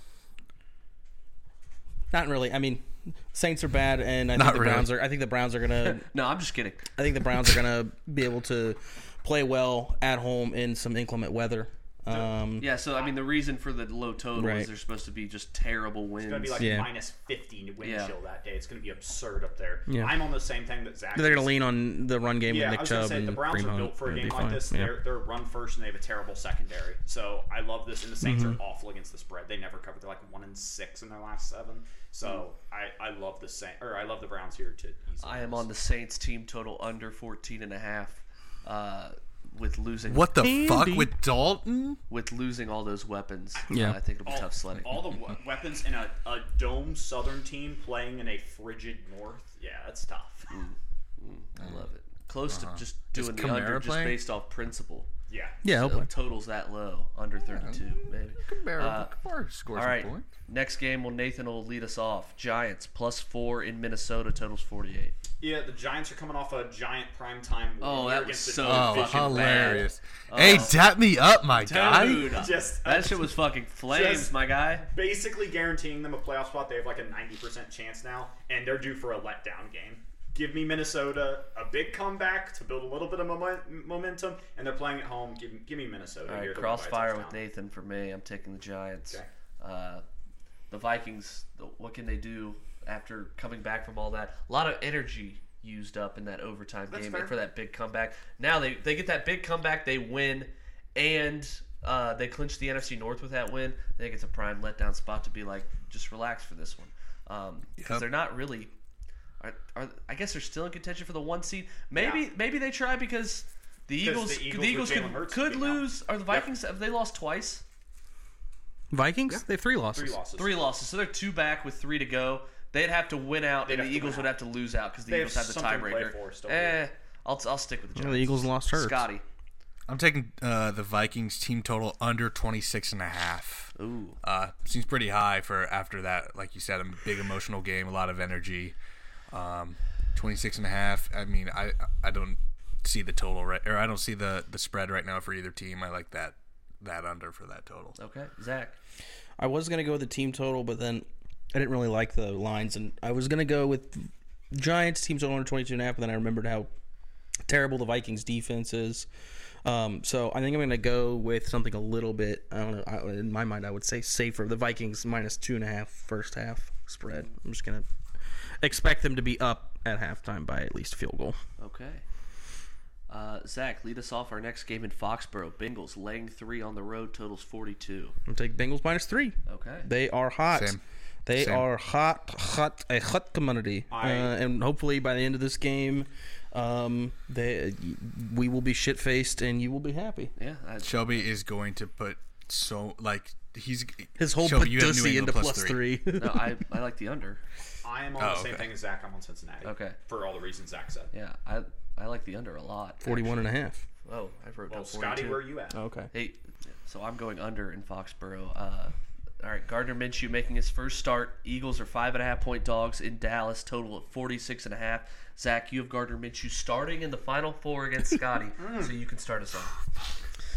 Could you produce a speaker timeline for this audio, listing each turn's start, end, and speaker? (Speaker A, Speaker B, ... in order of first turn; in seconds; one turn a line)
Speaker A: 2.1-6.0
Speaker B: 4.3-4.9
Speaker C: 5.8-6.8
Speaker A: 7.0-12.7
Speaker C: 12.6-16.7
Speaker A: 14.3-14.7
Speaker D: 16.2-21.6
Speaker A: 16.6-16.9
Speaker C: 17.8-18.1
Speaker A: 19.9-20.2
Speaker A: 21.1-25.0
Speaker D: 22.5-35.7
Speaker A: 28.2-28.6
Speaker C: 35.2-40.3
Speaker B: 40.1-42.0
Speaker A: 40.4-41.1
Speaker C: 42.1-45.0
Speaker D: 43.5-50.5
Speaker A: 43.7-44.0
Speaker C: 50.5-55.1
Speaker B: 51.6-51.8
Speaker B: 52.5-54.2
Speaker D: 55.3-55.6
Speaker A: 55.6-56.1
Speaker C: 55.6-59.1
Speaker B: 57.5-60.3
Speaker C: 59.7-65.1
Speaker D: 65.4-70.7
Speaker C: 67.8-70.8
Speaker B: 68.6-72.3
Speaker C: 71.5-74.9
Speaker D: 71.9-87.4
Speaker C: 86.2-90.0
Speaker C: 90.7-108.7
Speaker D: 96.9-97.3
Speaker B: 107.8-108.0
Speaker C: 109.4-117.6
Speaker D: 111.9-112.2
Speaker D: 114.0-116.5
Speaker A: 118.9-120.2
Speaker D: 119.9-120.6
Speaker C: 120.4-129.2
Speaker D: 123.6-124.3
Speaker D: 125.1-126.8
Speaker A: 128.0-129.1
Speaker B: 129.9-138.7
Speaker C: 133.7-134.2
Speaker B: 139.3-147.9
Speaker C: 147.9-148.8
Speaker A: 149.4-156.7
Speaker A: 157.4-159.1
Speaker A: 159.6-167.8
Speaker A: 168.6-171.4
Speaker C: 171.6-172.0
Speaker C: 173.1-178.1
Speaker A: 178.3-190.3
Speaker C: 179.4-179.9
Speaker B: 180.5-180.8
Speaker B: 181.3-181.7
Speaker D: 183.9-184.3
Speaker C: 190.4-191.3
Speaker B: 190.8-195.8
Speaker A: 194.2-196.6
Speaker C: 196.1-197.4
Speaker D: 197.8-201.1
Speaker B: 198.2-198.7
Speaker C: 199.6-200.0
Speaker C: 201.1-203.4
Speaker A: 203.0-203.8
Speaker C: 204.0-205.4
Speaker D: 204.7-205.8
Speaker A: 205.7-206.1
Speaker C: 206.1-219.7
Speaker D: 218.6-218.9